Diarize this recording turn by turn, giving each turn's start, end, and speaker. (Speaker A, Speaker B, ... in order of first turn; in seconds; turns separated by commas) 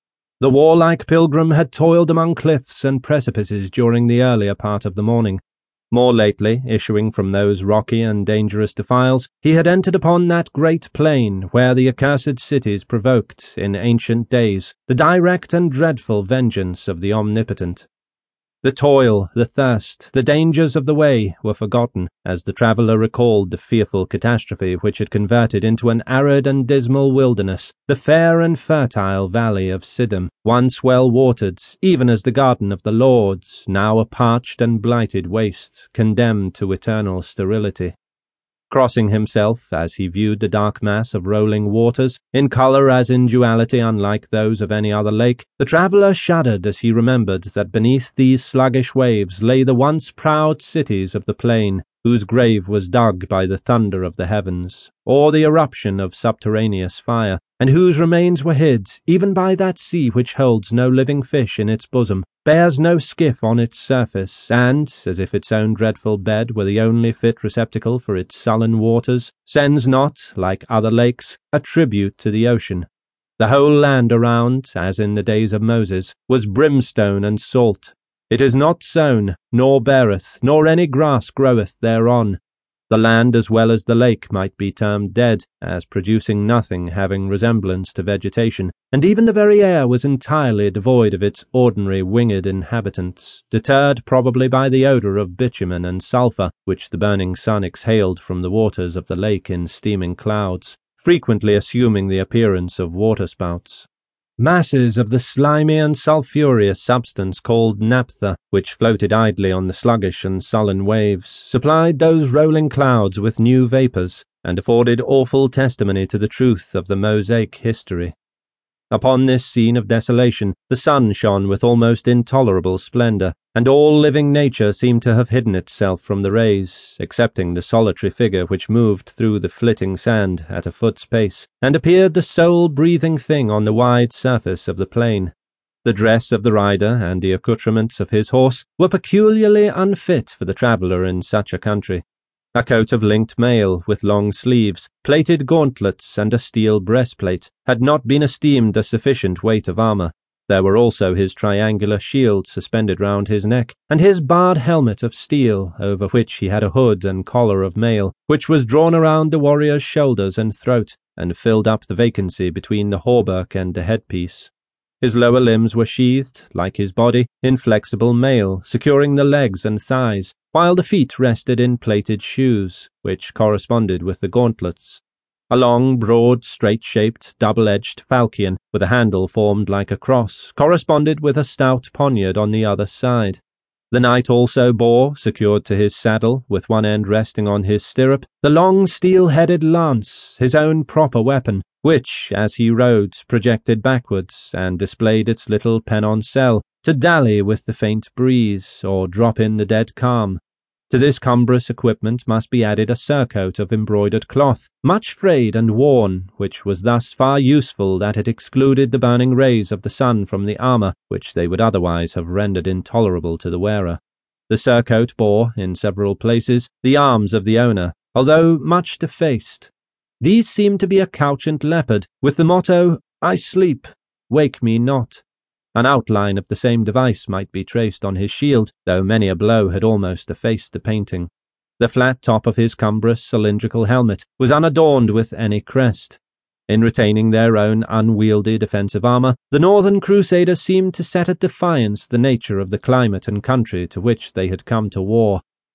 Speaker A: 0.4-17.9, Speaker A: 18.6-38.0, Speaker A: 38.7-72.9, Speaker A: 73.4-118.1, Speaker A: 118.9-135.3, Speaker A: 135.8-142.0, Speaker A: 142.5-245.4